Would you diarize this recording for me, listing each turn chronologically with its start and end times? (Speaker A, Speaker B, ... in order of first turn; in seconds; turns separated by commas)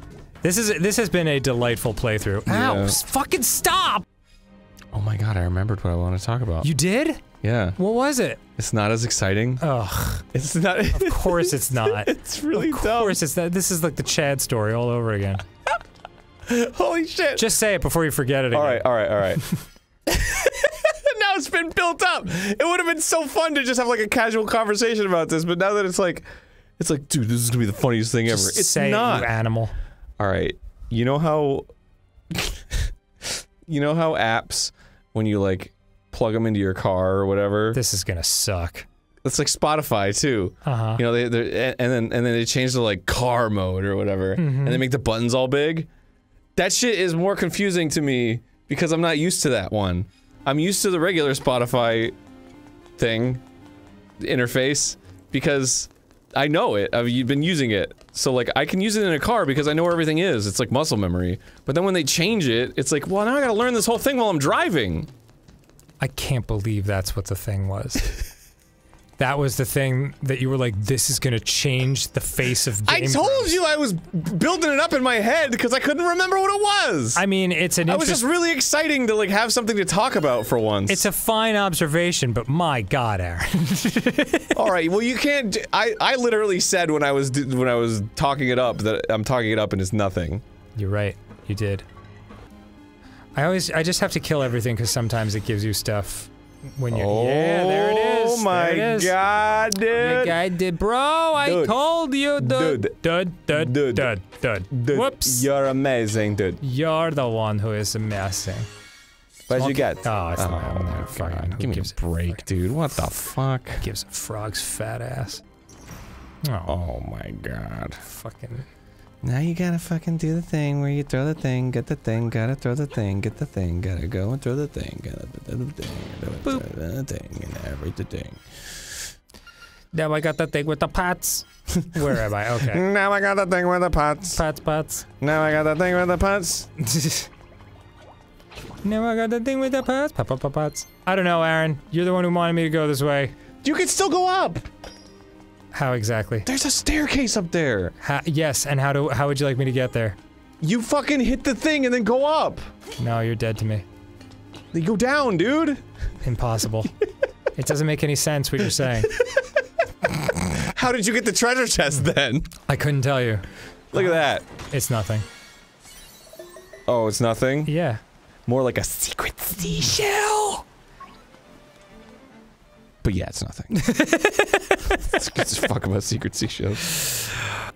Speaker A: 0.4-4.1, Speaker B: 2.5-3.0, Speaker B: 4.9-6.7, Speaker A: 6.6-7.2, Speaker B: 7.4-7.8, Speaker A: 7.8-8.4, Speaker B: 8.6-9.6, Speaker A: 9.6-10.2, Speaker B: 10.3-13.2, Speaker A: 10.9-15.4, Speaker B: 16.5-17.5, Speaker A: 17.4-18.9, Speaker B: 18.5-19.4, Speaker B: 20.1-29.3, Speaker A: 28.3-29.8, Speaker B: 30.2-31.7, Speaker B: 32.3-37.8, Speaker A: 37.7-38.9, Speaker B: 39.2-45.9, Speaker A: 40.6-41.0, Speaker A: 44.4-44.8, Speaker B: 46.6-52.1, Speaker B: 53.0-53.4, Speaker B: 54.2-65.1, Speaker A: 66.0-68.1, Speaker A: 69.2-73.5, Speaker B: 72.9-77.2, Speaker A: 77.2-78.2, Speaker B: 77.9-81.1, Speaker A: 80.9-84.6, Speaker B: 84.5-90.4, Speaker A: 90.8-91.9, Speaker A: 93.3-99.1, Speaker B: 96.9-100.4, Speaker A: 99.9-105.5, Speaker B: 101.4-101.8, Speaker B: 102.4-104.1, Speaker B: 104.7-106.6, Speaker A: 106.6-108.7, Speaker B: 109.5-113.9, Speaker A: 109.5-112.4, Speaker A: 113.8-115.4, Speaker A: 116.5-116.7, Speaker B: 116.7-118.0, Speaker A: 118.0-118.7, Speaker B: 119.2-129.1, Speaker A: 129.9-132.8, Speaker B: 132.6-134.4, Speaker A: 134.3-135.1, Speaker B: 135.2-136.7, Speaker A: 136.8-137.3, Speaker A: 138.8-143.3, Speaker B: 143.6-144.7, Speaker A: 145.7-146.5, Speaker B: 146.5-147.9, Speaker A: 148.0-150.2, Speaker B: 150.6-152.7, Speaker A: 153.0-153.9, Speaker B: 154.7-155.8, Speaker A: 156.2-157.0, Speaker A: 157.6-159.1, Speaker B: 159.2-159.4, Speaker B: 160.1-162.5, Speaker A: 162.7-165.3, Speaker B: 163.9-164.4, Speaker B: 166.9-167.7, Speaker A: 167.7-168.0, Speaker B: 168.5-170.7, Speaker B: 173.0-174.0, Speaker A: 173.8-175.2, Speaker B: 175.0-177.3